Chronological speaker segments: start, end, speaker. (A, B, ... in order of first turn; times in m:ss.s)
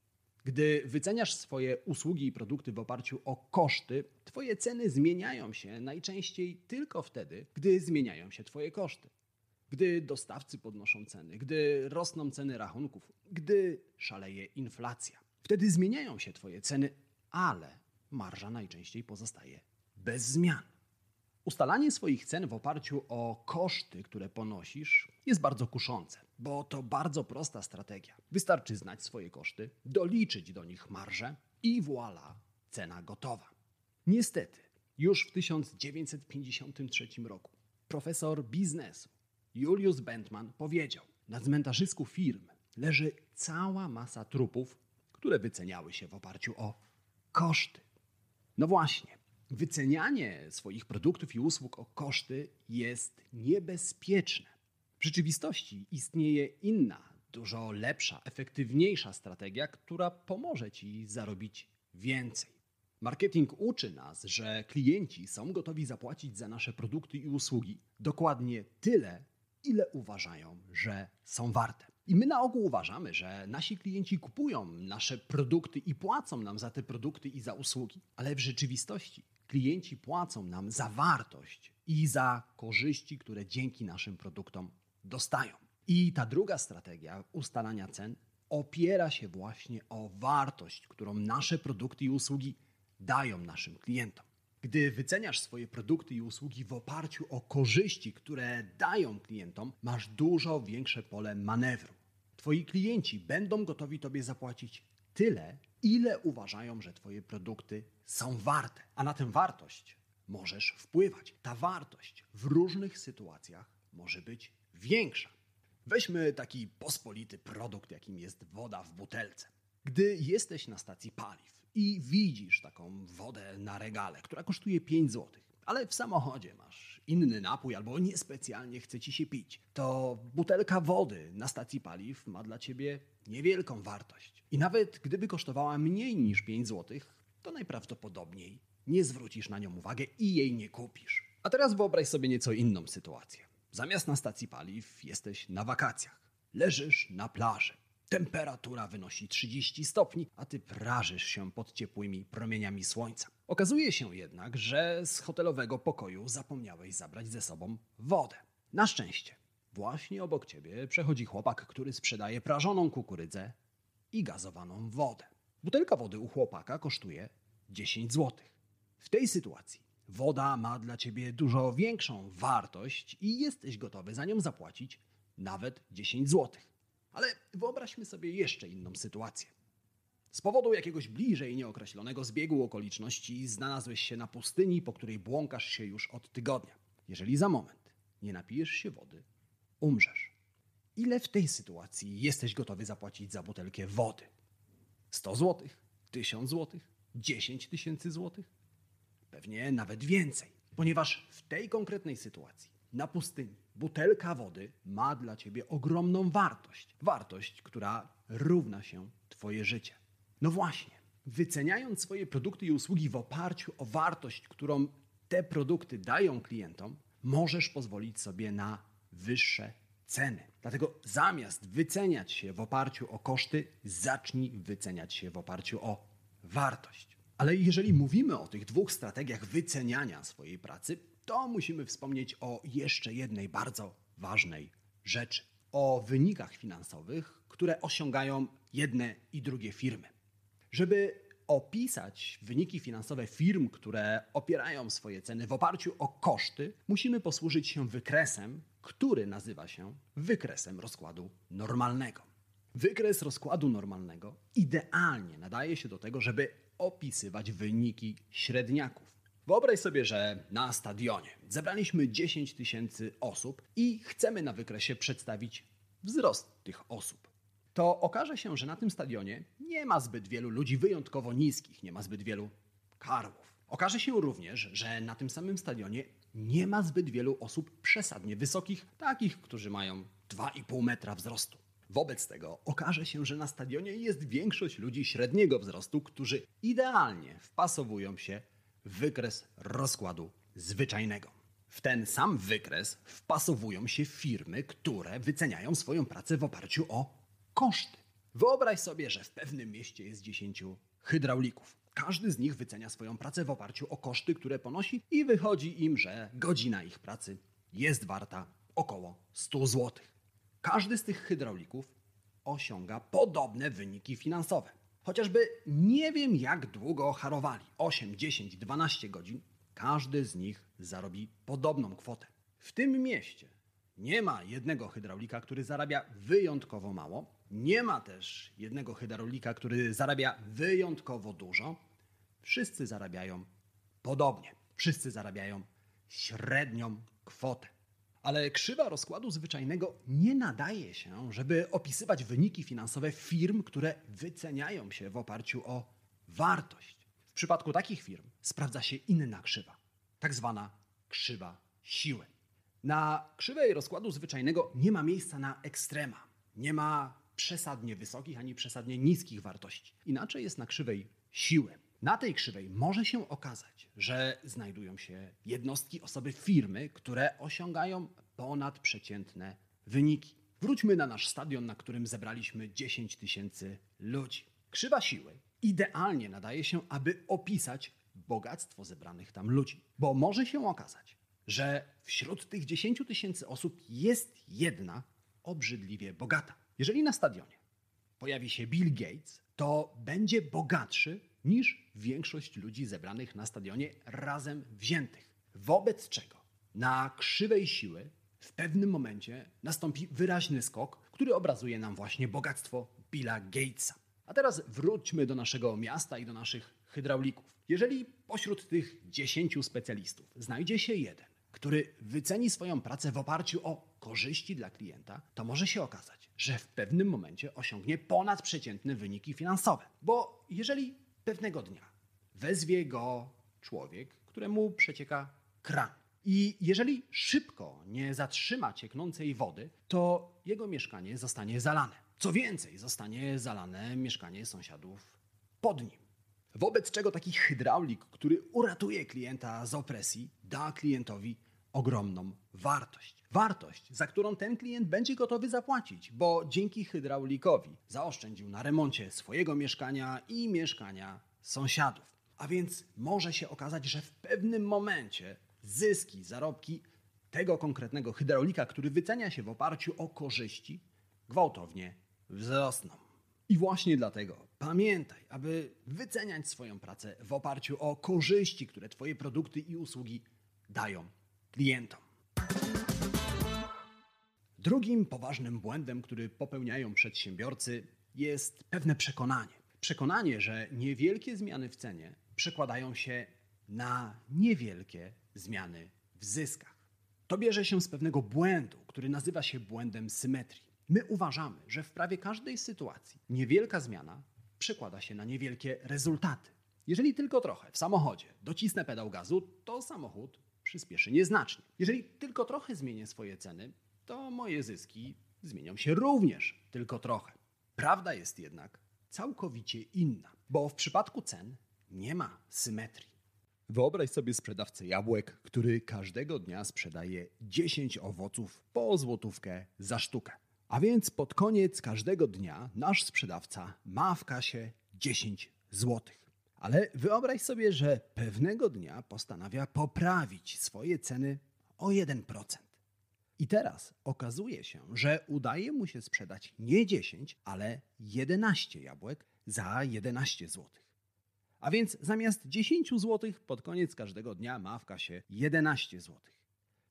0:00.4-0:09.1 A
0:09.7-0:20.7 A
0:21.4-0:33.5 A
0:34.1-0:46.8 A
0:47.3-0:47.8 A
0:48.6-1:55.3 A
1:55.8-2:43.6 A
2:44.1-2:59.5 A
3:00.3-3:09.2 A
3:09.8-3:10.4 A
3:11.0-3:14.3 A
3:15.1-3:18.5 A
3:19.3-4:00.1 A
4:00.7-5:11.9 A
5:12.4-5:31.8 A
5:32.4-5:33.5 A
5:34.0-5:37.7 A
5:38.2-5:52.3 A
5:52.8-6:27.6 A
6:28.2-7:16.0 A
7:16.6-7:52.0 A
7:54.6-8:33.2 A
8:33.7-8:52.7 A
8:53.4-9:00.9 A
9:01.6-9:06.4 A